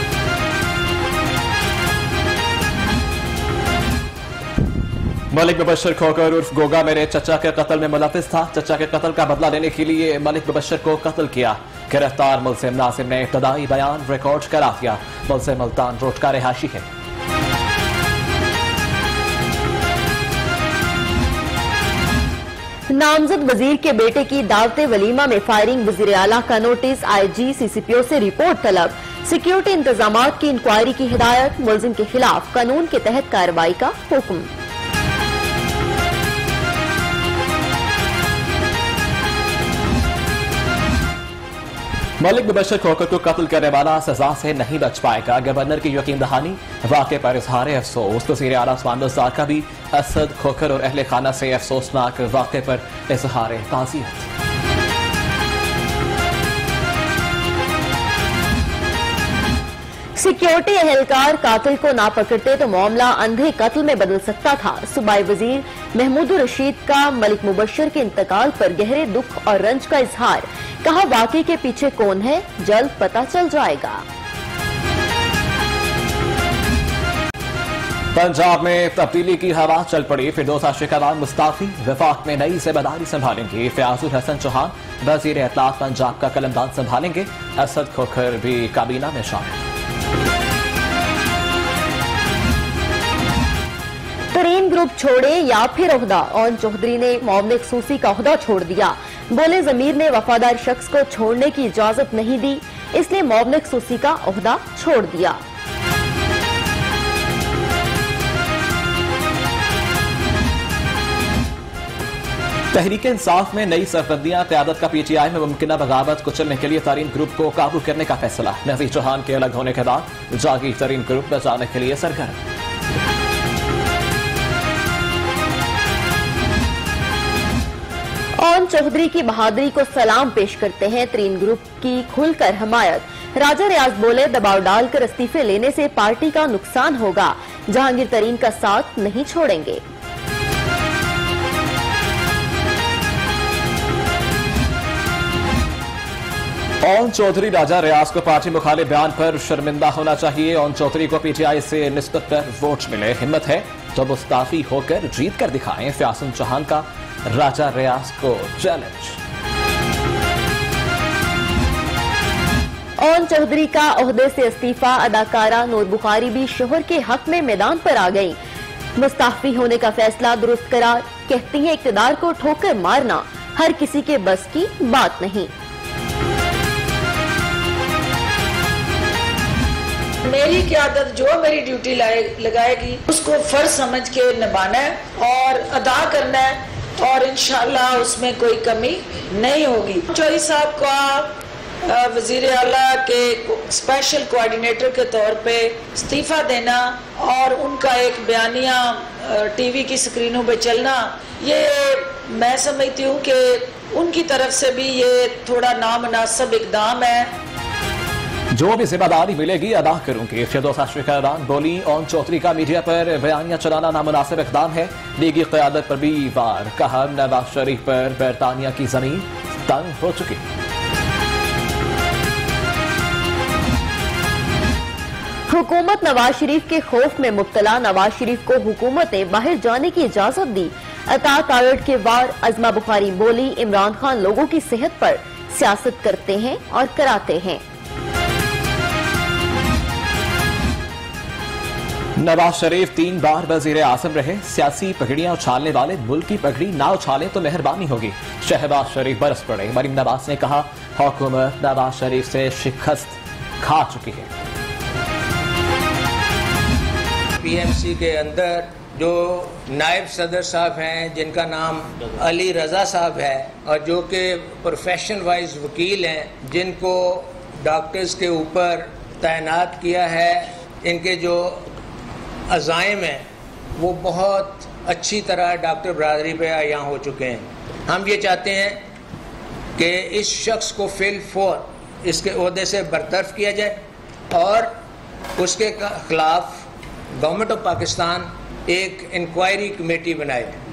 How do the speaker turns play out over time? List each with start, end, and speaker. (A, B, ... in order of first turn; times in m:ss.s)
0:05.3-0:16.8 A
0:22.9-0:34.5 B
0:42.2-0:54.3 A
1:00.2-1:14.0 B
1:18.1-1:29.6 A
1:34.3-1:45.4 B
1:52.7-2:02.4 A
2:08.4-2:19.8 B
2:26.8-2:39.2 A
2:43.0-2:48.4 B
2:49.0-2:55.5 B
3:00.2-3:27.3 C
3:28.5-3:40.4 A
3:45.5-3:57.6 B
4:02.2-4:14.3 A
4:17.4-4:31.7 D
4:32.5-4:33.2 D
4:33.8-4:38.8 D
4:39.8-4:43.7 D
4:44.3-4:44.7 D
4:45.4-4:46.6 D
4:47.2-4:50.5 D